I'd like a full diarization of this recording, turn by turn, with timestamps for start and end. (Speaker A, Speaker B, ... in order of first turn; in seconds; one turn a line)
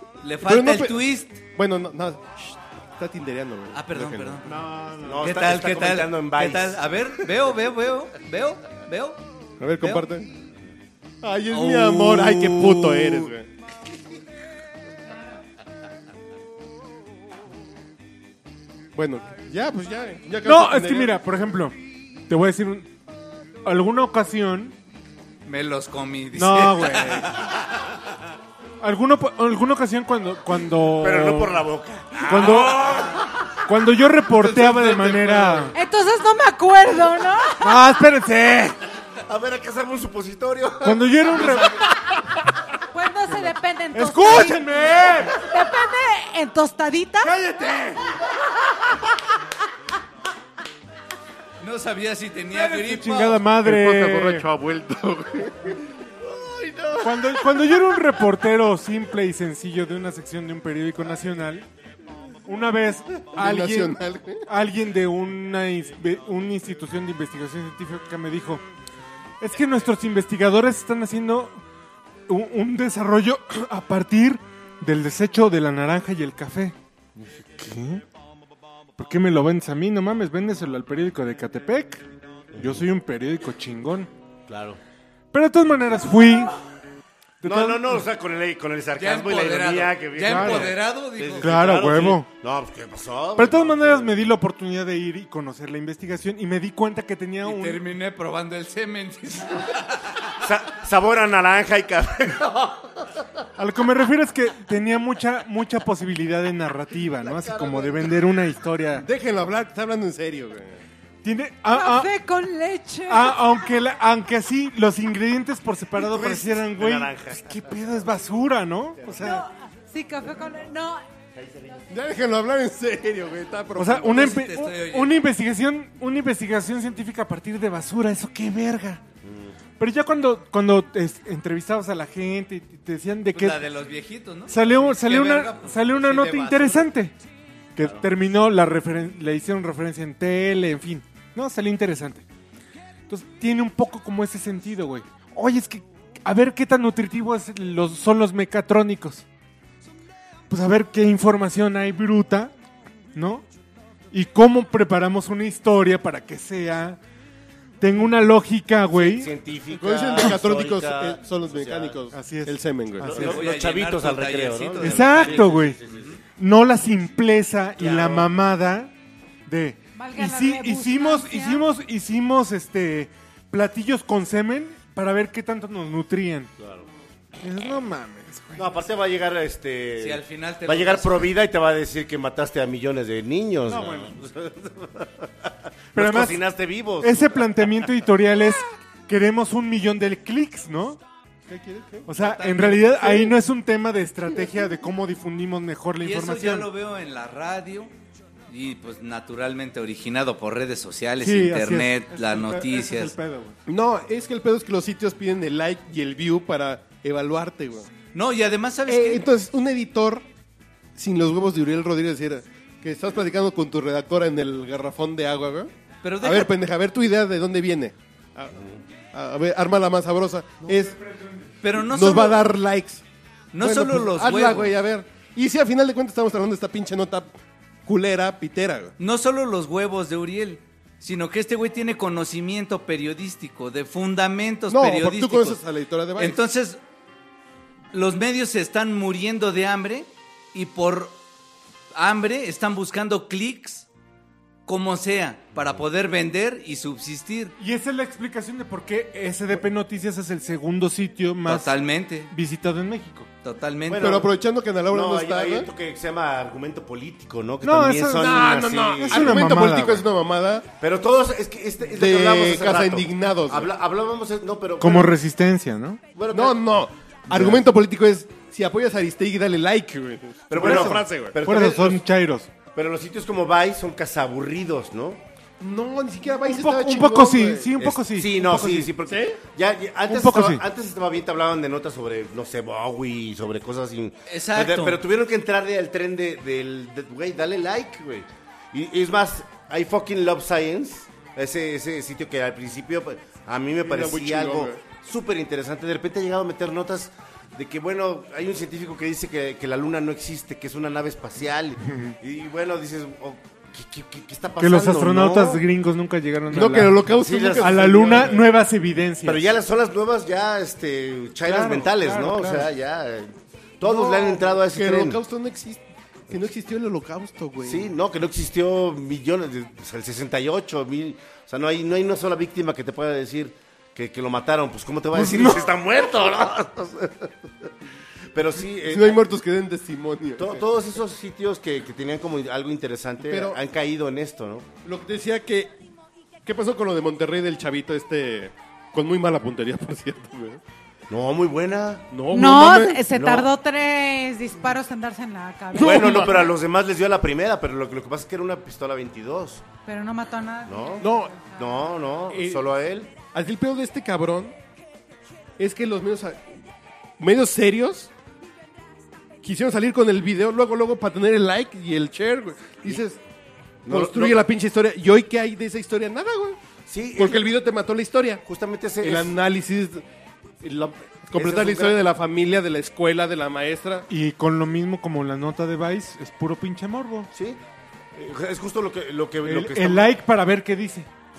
Speaker A: 0.2-1.4
Speaker B: 0.4-1.0
Speaker B: 1.6-4.8
Speaker A: 3.7-4.5
Speaker C: 4.5-5.3
Speaker D: 5.0-6.8
Speaker A: 5.2-9.2
Speaker B: 9.6-10.3
Speaker A: 9.8-10.1
Speaker B: 11.2-13.5
Speaker A: 11.5-13.3
Speaker B: 18.9-21.2
Speaker C: 20.4-22.9
Speaker C: 23.6-24.8
Speaker A: 25.4-27.6
Speaker C: 26.3-27.3
Speaker C: 28.8-31.6
Speaker D: 31.0-33.3
Speaker C: 32.2-33.1
Speaker C: 33.6-35.8
Speaker A: 34.4-35.7
Speaker E: 35.7-37.8
Speaker C: 37.6-38.8
Speaker D: 39.3-41.9
Speaker C: 40.8-41.9
Speaker E: 42.9-47.3
Speaker C: 43.3-45.5
Speaker C: 47.2-48.0
Speaker A: 51.6-53.4
Speaker C: 52.5-54.5
Speaker B: 53.5-55.9
Speaker D: 56.4-57.1
Speaker C: 57.0-61.7
Speaker C: 62.5-68.6
Speaker B: 63.3-64.5
Speaker C: 69.4-71.6
Speaker C: 72.3-76.8
Speaker C: 77.6-78.0
Speaker C: 79.0-82.0
Speaker D: 82.5-82.8
Speaker C: 82.6-84.1
Speaker D: 84.5-84.8
Speaker C: 85.3-86.5
Speaker C: 87.4-88.1
Speaker D: 87.4-94.2
Speaker A: 89.0-91.7
Speaker C: 90.2-90.8
Speaker C: 91.4-92.3
Speaker C: 93.4-97.8
Speaker A: 97.4-100.3
Speaker D: 100.4-102.8
Speaker C: 103.6-109.0
Speaker D: 107.3-108.0
Speaker B: 109.0-110.8
Speaker C: 111.2-112.1
Speaker E: 111.7-113.6
Speaker C: 113.1-119.5
Speaker D: 116.0-117.5
Speaker E: 119.2-121.0
Speaker D: 121.3-121.9
Speaker B: 121.9-124.4
Speaker C: 123.8-129.0
Speaker A: 124.1-125.2
Speaker D: 129.2-129.6
Speaker C: 129.8-133.6
Speaker A: 133.3-136.9
Speaker C: 134.5-137.2
Speaker C: 137.8-142.2
Speaker D: 137.8-138.1
Speaker C: 143.1-149.3
Speaker C: 150.5-152.5
Speaker C: 153.1-153.5
Speaker C: 154.1-157.0
Speaker C: 157.8-159.3
Speaker D: 158.9-162.0
Speaker B: 159.7-163.3
Speaker C: 162.1-163.4
Speaker D: 163.0-166.1
Speaker A: 163.1-166.2
Speaker C: 164.8-165.8
Speaker C: 166.4-168.9
Speaker D: 167.8-168.3
Speaker C: 169.5-176.5
Speaker E: 170.0-171.6
Speaker D: 176.6-176.9
Speaker C: 177.4-178.7
Speaker D: 178.6-187.2
Speaker A: 180.0-181.3
Speaker C: 183.7-184.2
Speaker C: 186.0-186.4
Speaker C: 187.0-191.0
Speaker B: 191.5-192.1
Speaker C: 192.1-196.7
Speaker A: 192.2-193.3
Speaker A: 196.0-197.9
Speaker A: 198.5-203.1
Speaker C: 201.2-203.6
Speaker B: 203.7-207.9
Speaker A: 208.1-209.3
Speaker B: 208.9-210.3
Speaker B: 211.0-215.7
Speaker A: 216.0-216.5
Speaker B: 216.2-221.0
Speaker C: 220.7-221.5
Speaker A: 221.6-222.5
Speaker B: 221.8-223.0
Speaker A: 223.5-224.8
Speaker B: 223.6-227.3
Speaker B: 227.9-228.9
Speaker A: 229.0-235.6
Speaker B: 234.7-236.4
Speaker A: 236.2-236.8
Speaker A: 237.9-241.2
Speaker A: 241.9-243.9
Speaker A: 244.7-247.5
Speaker C: 247.6-251.8
Speaker A: 251.5-252.3
Speaker C: 252.3-253.3
Speaker A: 253.4-254.2
Speaker D: 253.9-254.3
Speaker B: 253.9-255.7
Speaker D: 254.9-259.4
Speaker C: 257.6-260.1
Speaker B: 258.2-260.7
Speaker D: 260.8-265.1
Speaker B: 261.9-263.7
Speaker C: 264.8-266.0
Speaker D: 266.1-266.6
Speaker B: 266.3-271.4
Speaker D: 267.3-267.7
Speaker D: 270.5-272.0
Speaker C: 270.6-272.5
Speaker D: 272.6-275.2
Speaker B: 275.6-277.7
Speaker C: 276.2-278.9
Speaker D: 277.8-305.6
Speaker B: 279.1-279.4
Speaker C: 280.1-280.6
Speaker A: 284.3-285.0
Speaker B: 293.8-294.8
Speaker C: 304.6-307.0
Speaker B: 306.5-308.5
Speaker D: 307.1-308.2
Speaker C: 307.6-309.5
Speaker D: 309.2-315.2
Speaker C: 311.5-312.6
Speaker B: 312.0-312.7
Speaker B: 313.8-317.9
Speaker D: 317.6-327.7
Speaker B: 325.1-325.6
Speaker C: 325.2-325.6
Speaker D: 328.3-329.2
Speaker B: 328.7-330.7
Speaker D: 330.4-334.7
Speaker B: 333.2-333.6
Speaker B: 334.8-335.7
Speaker B: 336.4-340.6
Speaker D: 341.1-342.1
Speaker B: 342.1-343.0
Speaker E: 342.3-346.4
Speaker D: 343.1-343.5
Speaker B: 345.7-346.6
Speaker D: 345.8-349.6
Speaker E: 349.9-351.9
Speaker D: 350.7-353.1
Speaker B: 351.0-351.4
Speaker B: 352.3-352.7
Speaker B: 353.3-354.6
Speaker B: 355.6-356.4
Speaker B: 357.2-358.1
Speaker B: 359.4-363.2
Speaker D: 363.9-364.4
Speaker B: 363.9-366.6
Speaker D: 366.9-367.5
Speaker B: 367.1-368.4
Speaker D: 368.5-369.3
Speaker B: 369.0-370.0
Speaker B: 370.6-374.1
Speaker D: 371.4-372.0
Speaker C: 374.1-377.3
Speaker D: 377.3-377.6
Speaker D: 378.2-380.1
Speaker C: 379.4-381.1